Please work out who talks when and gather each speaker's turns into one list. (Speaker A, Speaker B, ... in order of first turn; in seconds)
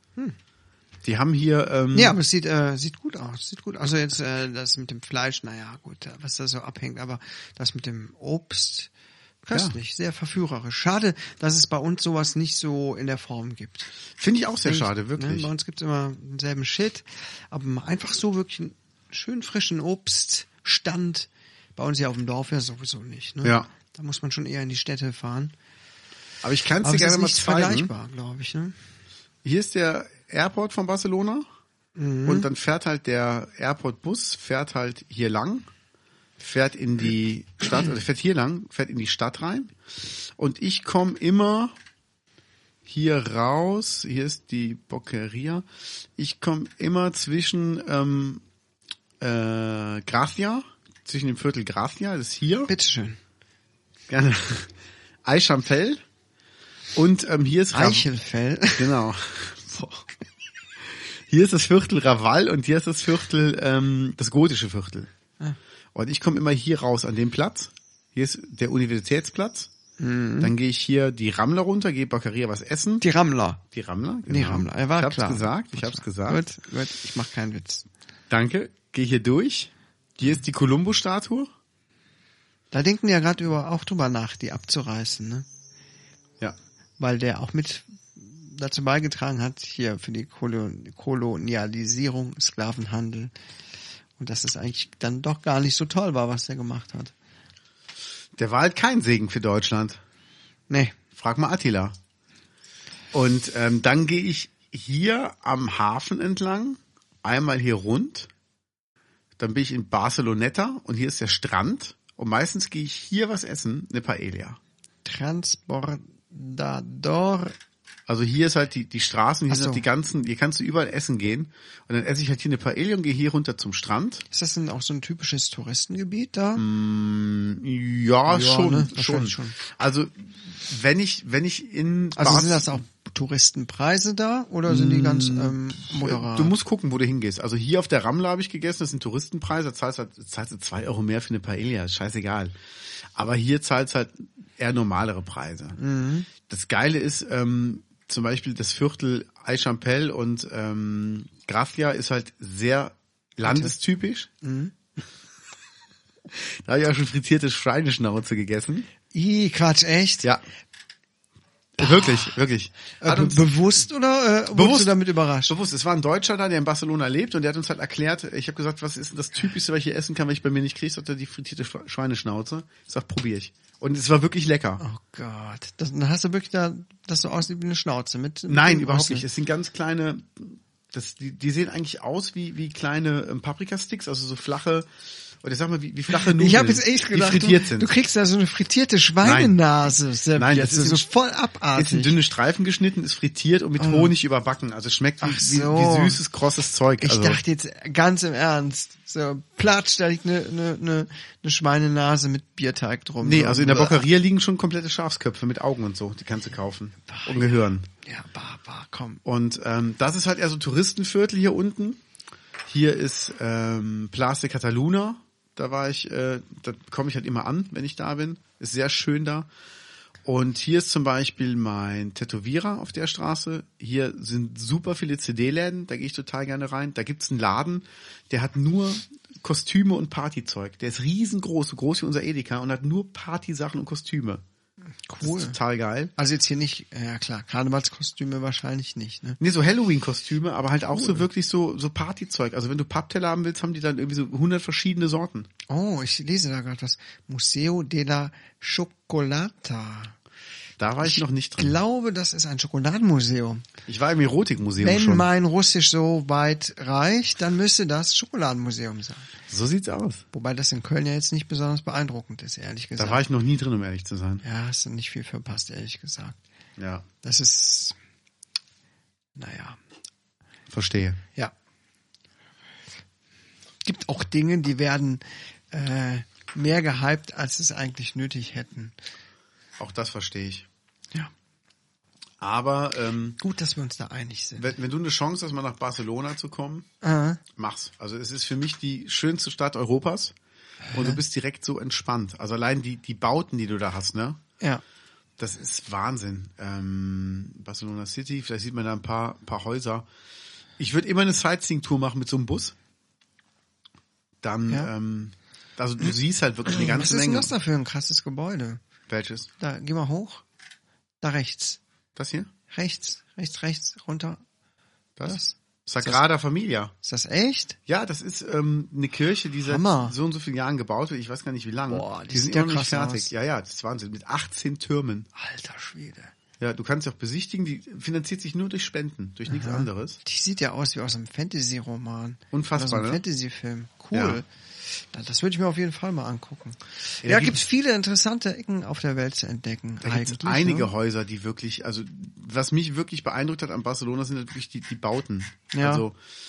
Speaker A: 1.0-2.2, 14.2-15.5, 23.4-23.7, 26.4-27.9, 29.4-31.4, 32.2-35.7, 36.4-41.7, 42.9-45.6, 46.2-48.4, 49.2-52.7, 54.1-54.7, 55.2-56.0, 56.9-58.0, 58.7-60.1, 60.8-65.1, 65.9-69.7, 70.4-73.0, 73.7-76.4, 78.3-81.5, 98.3-100.0, 101.1-101.9, 103.1-108.3, 109.4-114.6, 118.1-124.2, 126.5-132.8, 134.7-142.5, 143.1-145.8, 146.4-154.3, 156.3-158.9, 161.8-163.5, 164.5-164.9, 165.5-174.8, 178.5-184.9, 185.4-187.9, 189.2-189.5, 190.3-191.0, 191.7-197.4, 203.2-207.9, 209.2-212.0, 212.7-219.5, 220.2-234.4, 235.2-236.1, 239.4-245.5, 250.8-251.7, 253.9-255.3, 259.5-260.2, 263.0-264.4, 266.8-267.1, 270.7-271.2, 279.8-280.7, 282.4-283.4, 284.6-286.9, 287.5-290.3, 290.9-294.4, 295.4-300.1, 300.8-302.7, 304.4-307.5, 309.1-309.5, 312.1-312.5, 315.2-316.9, 317.9-325.3, 326.6-330.2, 332.5-333.2, 334.1-334.4, 337.2-337.6, 340.0-346.1
Speaker B: 1.9-8.9, 9.4-13.9, 14.6-25.5, 26.8-28.7, 31.9-32.5, 52.7-53.2, 57.7-59.0, 70.0-70.5, 73.0-73.6, 74.3-77.8, 82.7-85.5, 87.0-93.3, 94.2-97.1, 100.7-101.0, 115.0-117.5, 119.5-119.8, 124.3-126.6, 128.3-129.6, 132.1-136.6, 145.7-146.3, 153.4-153.7, 154.4-154.7, 159.1-160.3, 161.8-162.4, 163.0-165.6, 174.8-179.2, 186.1-192.2, 193.8-194.1, 195.2-196.2, 197.0-204.0, 207.1-209.2, 235.0-235.6, 236.2-239.4, 240.9-241.2, 245.7-250.2, 251.0-253.7, 254.8-259.3, 260.3-263.2, 264.4-266.4, 267.2-267.9, 269.4-269.8, 273.8-278.9, 283.4-284.7, 287.0-287.4, 290.9-291.2, 306.7-308.8, 309.6-310.4, 311.2-311.8, 312.7-314.4, 315.2-316.2, 317.0-317.8, 319.6-320.1, 321.9-323.3, 325.4-326.3, 329.5-340.9, 345.7-346.0